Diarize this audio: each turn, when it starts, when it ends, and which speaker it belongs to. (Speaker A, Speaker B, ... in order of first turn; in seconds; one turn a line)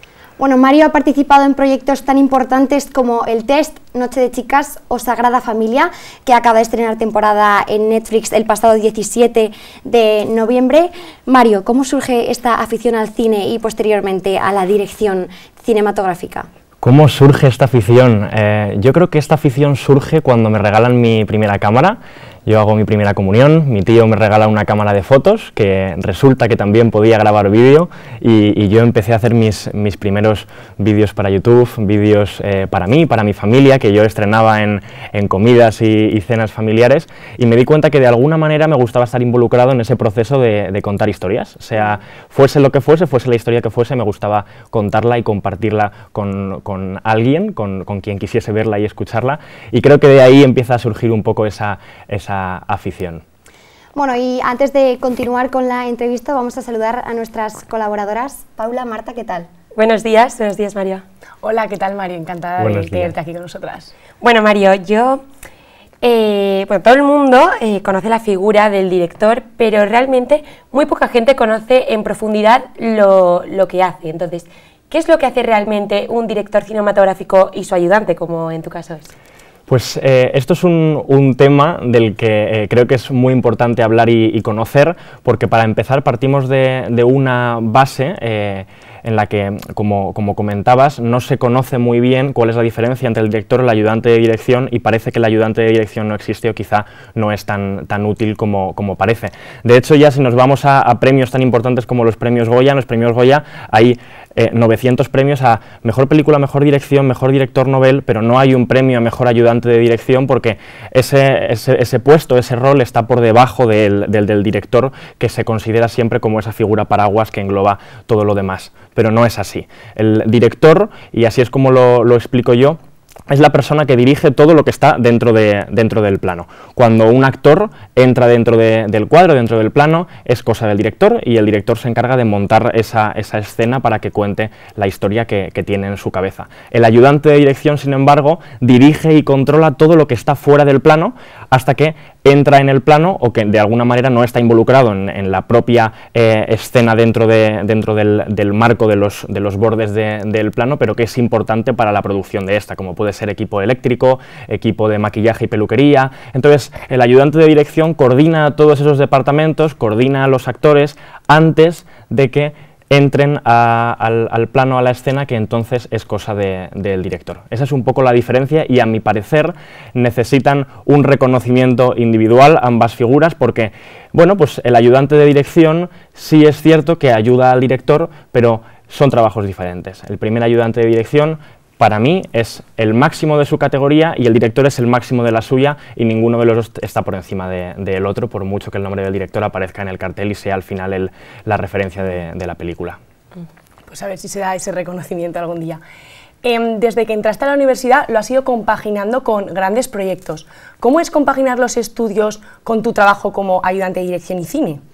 Speaker A: 0.4-16.5
Speaker B: 16.8-53.2
Speaker A: 54.0-59.5
Speaker C: 59.8-61.0
Speaker D: 61.4-63.9
Speaker B: 62.6-63.1
Speaker C: 64.2-65.2
Speaker C: 66.0-79.1
Speaker B: 79.7-193.0
Speaker D: 193.9-195.8
Speaker D: 196.4-204.8